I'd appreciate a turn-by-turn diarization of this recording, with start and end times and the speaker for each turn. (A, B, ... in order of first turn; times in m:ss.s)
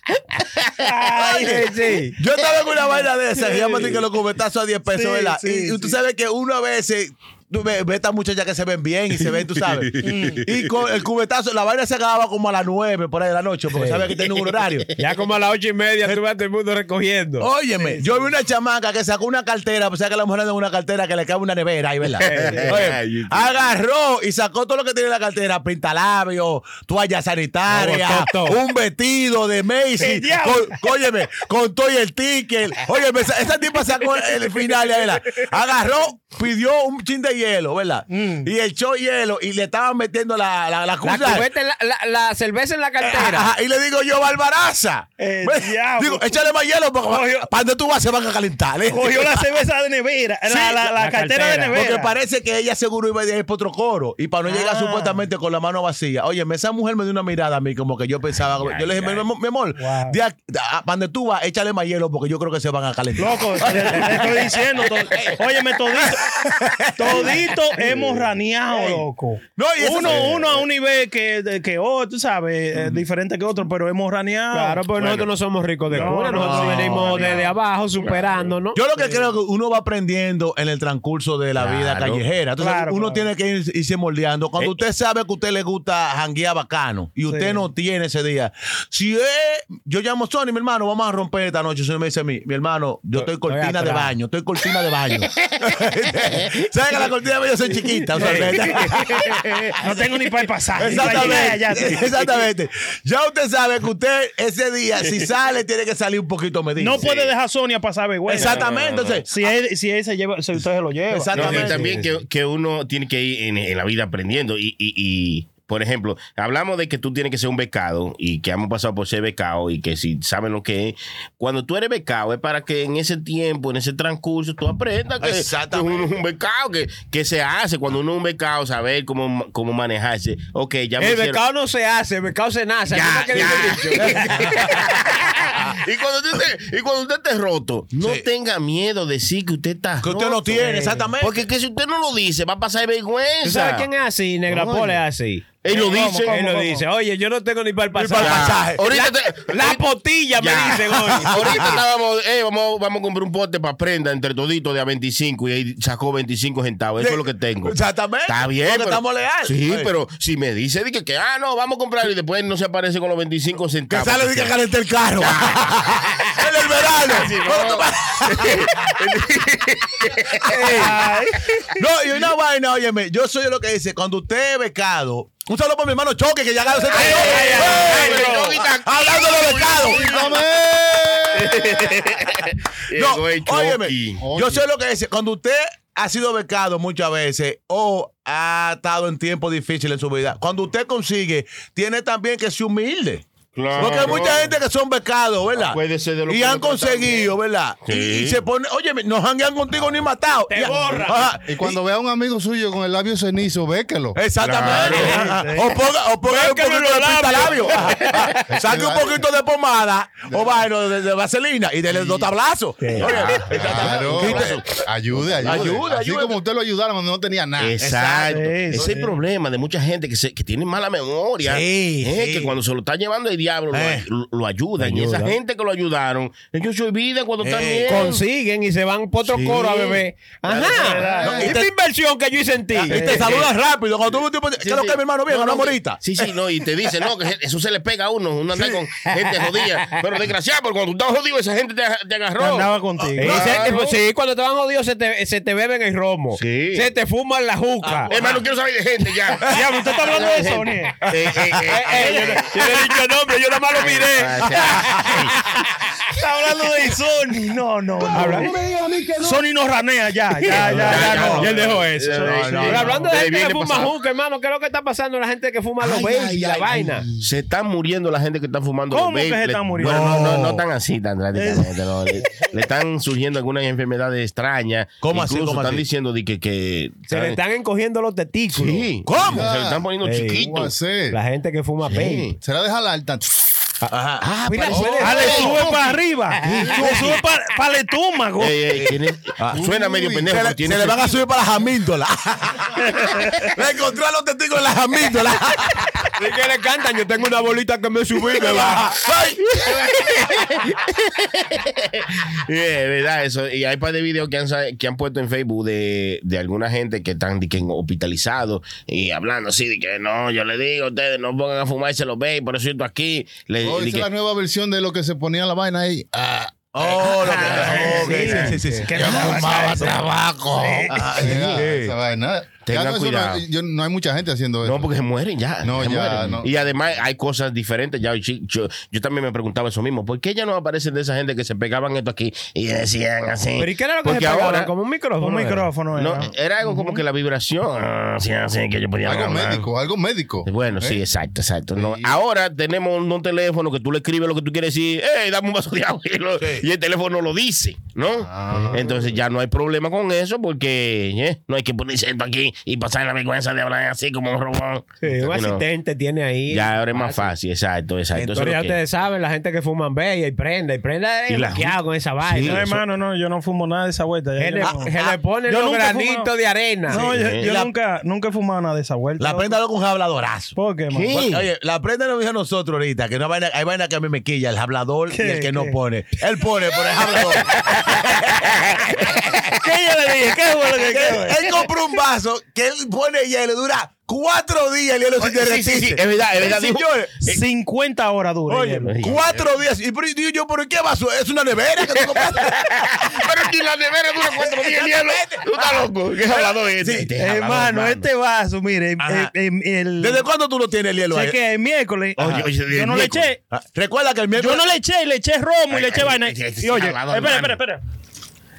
0:00.4-0:00.8 A
0:00.8-0:01.7 B
0:01.2-0:01.6 C
0:01.4-0:02.2 D
0:02.2-0:14.9 C
0:04.9-0:05.9 B
0:10.0-0:10.5 B
0:13.7-0:14.1 D
0:15.0-0:17.5 D
0:17.4-0:41.5 C
0:22.2-0:23.6 A
0:22.2-0:22.8 D
0:27.7-0:28.6 D
0:30.0-0:30.8 B
0:38.1-0:38.5 B
0:41.0-0:43.5 D
0:43.0-0:49.5 C
0:45.2-0:46.5 B
0:47.1-0:47.5 B
0:48.9-0:52.1 B
0:50.5-0:50.8 C
0:50.8-0:51.8 D
0:51.7-1:05.4 C
0:54.4-0:55.2 B
0:58.6-0:59.2 A
0:59.8-1:00.2 B
1:03.2-1:06.3 B
1:05.9-1:08.0 C
1:07.0-1:14.8 B
1:08.7-1:09.0 C
1:09.6-1:10.7 C
1:14.5-1:18.8 D
1:15.9-1:17.5 B
1:16.0-1:17.5 C
1:18.7-1:39.7 C
1:19.0-1:19.2 B
1:21.6-1:22.3 A
1:22.6-1:23.3 B
1:33.2-1:34.1 D
1:38.1-1:38.7 B
1:38.2-1:38.5 D
1:38.2-1:39.8 A
1:39.8-1:42.1 B
1:40.8-1:47.1 C
1:46.8-1:48.7 B
1:47.0-1:47.3 A
1:48.3-1:49.3 C
1:48.4-1:49.2 A
1:49.2-1:51.8 B
1:51.1-1:52.0 C
1:51.3-2:11.4 A
1:51.4-1:52.2 D
2:05.2-2:06.1 C
2:11.0-2:14.7 D
2:12.9-2:20.1 A
2:14.0-2:14.7 C
2:18.0-2:18.3 C
2:20.0-2:21.4 C
2:20.1-2:21.1 D
2:21.2-2:23.9 A
2:23.4-2:25.5 D
2:25.6-2:26.5 A
2:25.7-2:26.8 B
2:26.2-2:31.4 D
2:27.9-2:28.8 C
2:28.2-2:29.8 A
2:30.4-2:44.6 A
2:31.2-2:31.8 C
2:37.0-2:39.9 C
2:43.9-2:48.9 C
2:45.2-2:50.7 A
2:50.5-2:51.1 D
2:50.7-2:51.5 B
2:51.8-3:00.1 C
2:56.9-3:00.4 A
2:57.0-2:58.5 B
2:57.0-2:58.4 D
2:59.6-3:02.1 E
3:01.3-3:04.2 A
3:02.9-3:13.2 C
3:04.2-3:04.7 E
3:13.6-3:14.5 A
3:13.8-3:21.8 C
3:15.5-3:18.4 A
3:20.6-3:21.1 B
3:20.6-3:21.1 D
3:21.4-3:24.2 E
3:24.2-3:34.6 C
3:24.4-3:25.3 A
3:24.8-3:25.2 D
3:24.9-3:25.8 B
3:26.2-3:28.2 D
3:28.5-3:29.2 E
3:30.3-3:30.7 E
3:31.9-3:32.3 E
3:33.0-3:35.8 A
3:33.2-3:37.8 E
3:35.4-3:36.4 C
3:37.6-3:48.2 A
3:37.8-3:39.0 C
3:38.3-3:39.1 B
3:41.4-3:42.5 C
3:43.7-3:44.1 C
3:44.8-3:45.4 D
3:47.4-3:48.2 C
3:47.9-3:53.4 D
3:49.4-3:50.0 A
3:50.5-3:51.7 C
3:50.5-3:51.6 B
3:51.1-3:51.5 E
3:52.9-3:56.3 C
3:52.9-3:53.4 B
3:54.7-4:02.7 A
3:58.5-3:59.1 C
4:02.4-4:03.4 B
4:03.0-4:03.7 C
4:03.2-4:08.1 D
4:03.3-4:04.0 A
4:06.4-4:06.9 A
4:07.8-4:08.5 C
4:08.1-4:12.2 A
4:09.5-4:11.1 B
4:11.6-4:14.7 D
4:11.9-4:12.9 B
4:13.8-4:15.3 A
4:16.1-4:18.6 B
4:18.1-4:18.6 D
4:18.1-4:19.3 C
4:19.2-4:22.9 B
4:20.4-4:27.1 D
4:20.5-4:21.5 C
4:20.8-4:23.9 A
4:22.3-4:22.9 C
4:26.0-4:27.1 E
4:27.2-4:37.4 A
4:28.9-4:30.1 B
4:29.8-4:30.6 C
4:31.4-4:31.7 B
4:35.0-4:35.8 C
4:37.1-4:38.9 D
4:38.5-4:40.7 A
4:39.1-4:39.5 C
4:39.3-4:41.2 E
4:40.0-4:40.5 D
4:41.1-4:42.3 D
4:41.9-4:42.4 A
4:42.4-4:43.3 E
4:43.8-4:45.6 C
4:44.2-4:45.8 A
4:44.5-4:45.6 D
4:44.8-4:45.8 E
4:45.0-4:48.6 B
4:46.4-4:46.7 D
4:46.5-4:47.2 C
4:46.7-4:47.0 E
4:48.4-4:51.2 A
4:48.7-4:49.6 C
4:49.5-4:50.3 E
4:50.3-4:52.9 C
4:53.0-4:53.5 B
4:53.5-4:55.9 C
4:56.2-4:58.9 D
4:58.3-4:59.5 C
4:59.5-5:14.1 A
5:13.6-5:16.5 E
5:16.7-5:20.1 C
5:16.8-5:21.7 A
5:17.5-5:18.9 D
5:17.5-5:20.0 B
5:20.6-5:20.9 B
5:20.9-5:22.0 C
5:21.0-5:24.9 E
5:22.7-5:23.4 A
5:24.6-5:34.7 A
5:25.6-5:26.5 E
5:33.6-5:35.7 D
5:35.2-5:37.0 B
5:36.0-5:39.7 A
5:39.0-5:40.5 E
5:40.4-5:55.6 A
5:41.8-5:42.2 E
5:46.4-5:46.6 C
5:48.2-5:49.0 E
5:55.0-5:57.3 D
5:56.5-5:58.8 A
5:58.3-6:02.7 D
6:01.3-6:02.8 A
6:02.4-6:06.3 B
6:04.4-6:07.0 D
6:04.6-6:05.1 C
6:06.8-6:09.6 B
6:06.9-6:07.5 A
6:07.4-6:07.7 C
6:09.2-6:10.6 C
6:10.6-6:11.1 B
6:10.9-6:11.5 A
6:11.1-6:19.1 C
6:15.1-6:15.8 B
6:17.4-6:19.4 A
6:19.6-6:21.5 B
6:20.7-6:27.1 C
6:25.2-6:27.4 A
6:27.2-6:29.0 B
6:28.5-6:33.2 C
6:28.9-6:29.5 A
6:32.0-6:38.0 A
6:34.2-6:37.1 C
6:37.2-6:40.3 B
6:39.0-6:39.3 C
6:40.0-6:41.4 C
6:41.1-6:43.4 B
6:42.2-6:42.5 C
6:42.2-6:43.3 A
6:43.5-6:44.6 C
6:44.3-6:47.8 B
6:45.7-6:47.6 A